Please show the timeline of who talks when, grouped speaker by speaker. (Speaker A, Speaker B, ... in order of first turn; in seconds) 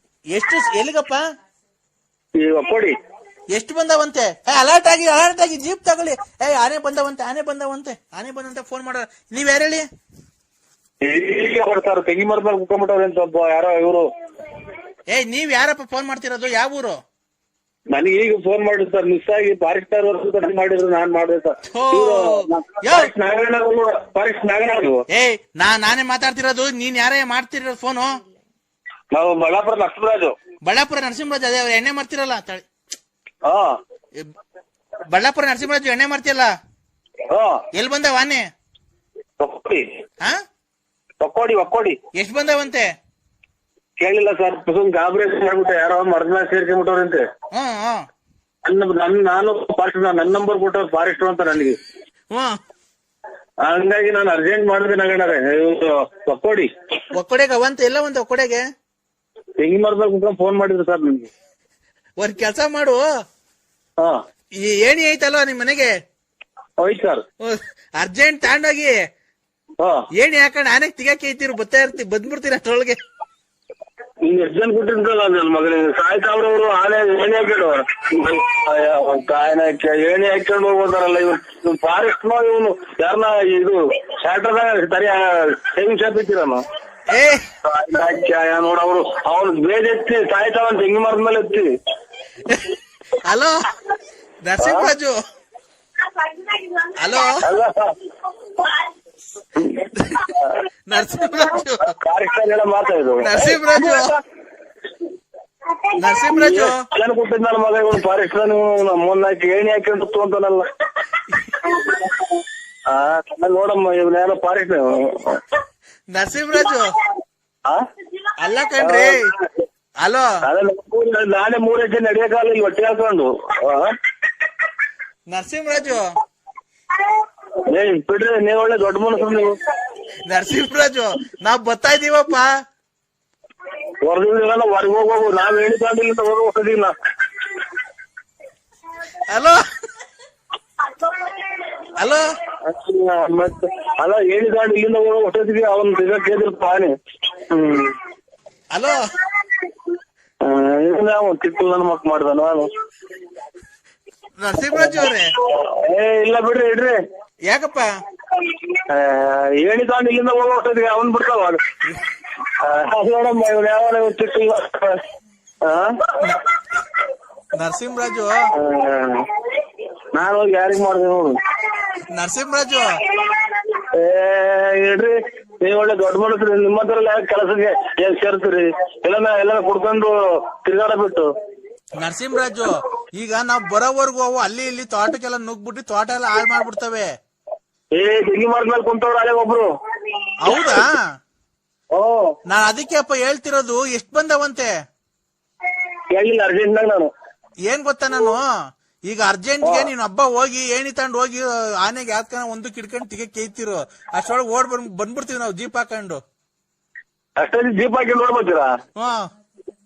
Speaker A: 0.3-1.2, 3.5-9.8, 15.1-16.9, 21.7-23.1, 25.1-28.1, 30.7-32.6, 35.1-36.5, 37.7-38.4, 42.2-42.9, 47.5-48.0, 57.2-58.6, 62.2-63.0, 64.6-65.9, 67.5-68.9, 70.2-73.0, 87.1-87.4, 93.2-93.5, 94.4-95.1, 97.0-97.4, 100.0-100.3, 100.9-101.9, 103.2-104.1, 106.0-106.8, 116.1-116.8, 118.4-119.3, 120.0-120.3, 125.3-126.1, 130.2-132.5, 139.3-139.6, 148.7-149.0, 154.4-155.3, 157.5-157.9, 167.5-168.5, 172.1-172.9, 182.0-187.1, 190.4-190.9, 192.5-194.7, 197.7-198.4, 199.1-206.2
Speaker B: 2.4-2.9, 11.0-14.1, 17.9-25.0, 29.1-30.3, 33.5-33.7, 37.3-37.6, 39.4-39.8, 41.2-42.0, 44.0-47.2, 48.6-51.8, 53.6-56.7, 59.6-61.3, 66.8-67.2, 74.2-86.6, 87.7-91.7, 94.6-94.9, 97.4-97.9, 99.5-99.8, 101.9-104.1, 106.3-110.7, 111.6-115.4, 118.8-119.2, 120.4-123.9, 127.7-129.6, 134.0-136.9, 142.6-146.9, 147.5-147.9, 150.4-152.7, 154.7-157.0, 158.4-161.6, 162.6-165.0, 165.6-165.9, 168.6-169.2, 170.1-171.4, 173.8-181.3, 187.9-190.8, 191.9-192.3, 196.1-197.1, 199.6-199.9, 207.4-208.7